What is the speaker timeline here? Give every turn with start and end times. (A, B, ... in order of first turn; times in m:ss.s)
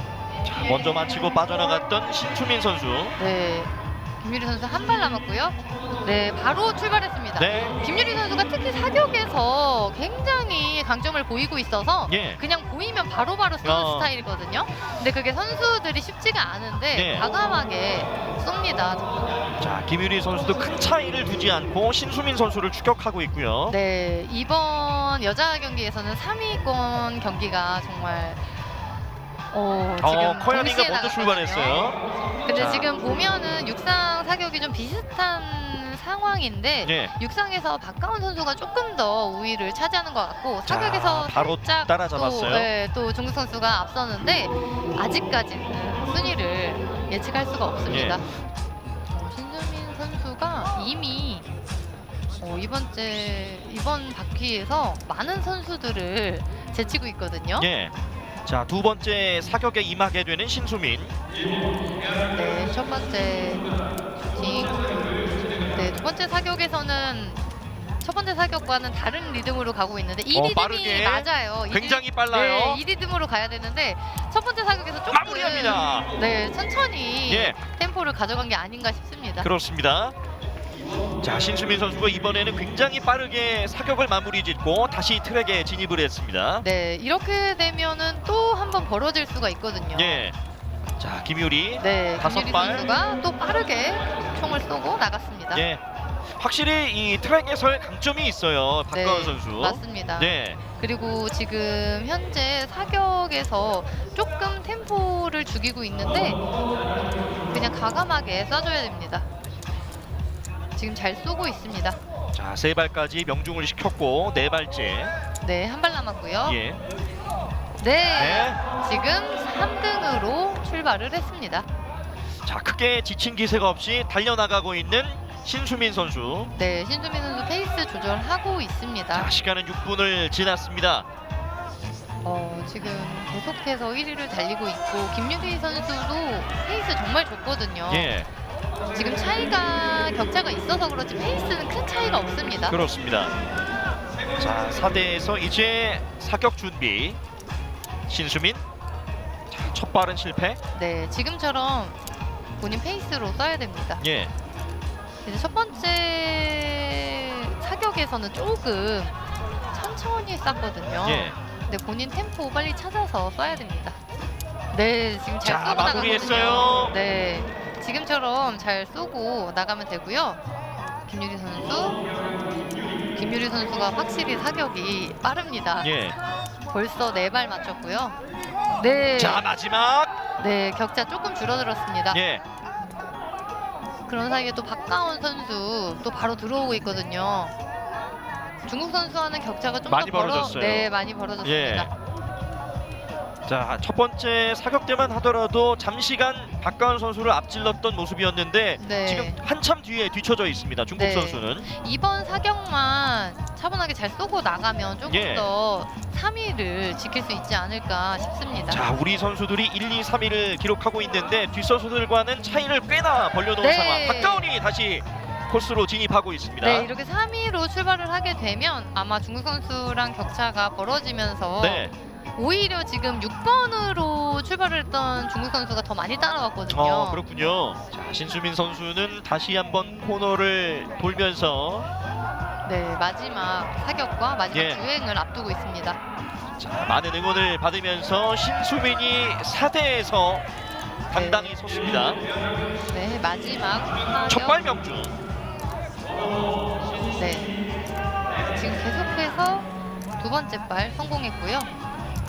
0:00.4-0:03.2 A
0:03.2-0:19.1 B
0:07.4-0:07.8 A
0:12.1-0:12.4 A
0:13.6-0:14.1 A
0:16.9-0:17.3 A
0:19.6-0:23.8 A
0:23.7-0:28.5 B
0:29.5-0:31.9 B
0:30.0-0:32.0 A
0:32.4-0:48.2 B
0:32.5-0:32.9 A
0:36.8-0:37.1 A
0:40.7-0:42.7 A
0:47.9-0:48.2 A
0:49.1-0:51.5 B
0:52.4-0:57.7 B
0:57.6-0:57.9 A
0:58.4-1:01.1 A
1:02.3-1:03.7 B
1:04.2-1:04.8 B
1:05.7-1:07.4 B
1:08.0-1:19.5 B
1:10.3-1:12.8 A
1:15.1-1:16.1 A
1:17.3-1:17.6 A
1:19.4-1:20.1 A
1:21.2-1:26.6 A
1:26.6-1:30.2 B
1:29.9-1:30.4 A
1:31.0-1:32.9 A
1:31.8-1:35.6 B
1:35.5-1:35.8 A
1:36.4-1:40.6 A
1:38.9-1:46.4 B
1:47.5-1:49.2 B
1:50.8-1:52.0 B
1:52.3-1:55.1 A
1:55.4-1:56.6 B
1:56.4-1:56.8 A
1:57.8-2:01.7 B
1:58.1-1:58.6 A
2:02.4-2:06.5 A
2:06.6-2:09.3 B
2:09.1-2:11.1 A
2:12.2-2:18.1 B
2:17.9-2:18.3 A
2:19.0-2:22.8 B
2:22.7-2:23.3 A
2:24.4-2:27.2 A
2:28.1-2:28.6 A
2:29.5-2:30.6 A
2:30.7-2:32.0 B
2:32.6-2:34.0 B
2:34.0-2:34.3 A
2:35.2-2:39.2 B
2:39.7-2:44.0 B
2:41.0-2:41.4 A
2:44.7-2:50.4 B
2:45.4-2:46.9 A
2:51.1-2:52.0 B
2:53.1-2:55.9 B
2:55.8-2:56.2 A
2:56.7-2:58.2 B
2:58.8-2:59.4 B
2:59.2-3:00.2 A
3:00.4-3:02.2 B
3:02.1-3:02.4 A
3:04.1-3:07.5 B
3:08.6-3:11.9 B
3:09.9-3:10.9 A
3:11.4-3:11.9 A
3:13.5-3:21.6 A
3:18.8-3:19.4 B
3:21.0-3:28.8 B
3:25.1-3:25.5 A
3:28.7-3:36.9 A
3:33.6-3:34.4 B
3:36.6-3:47.2 B
3:41.6-3:41.9 A
3:46.7-3:51.9 A
3:52.6-3:56.0 B
3:54.5-3:54.8 A
3:56.6-4:00.4 A
4:01.1-4:01.6 B
4:01.1-4:02.2 A
4:02.9-4:04.7 B
4:04.3-4:05.1 A
4:07.1-4:07.5 B
4:08.5-4:11.7 B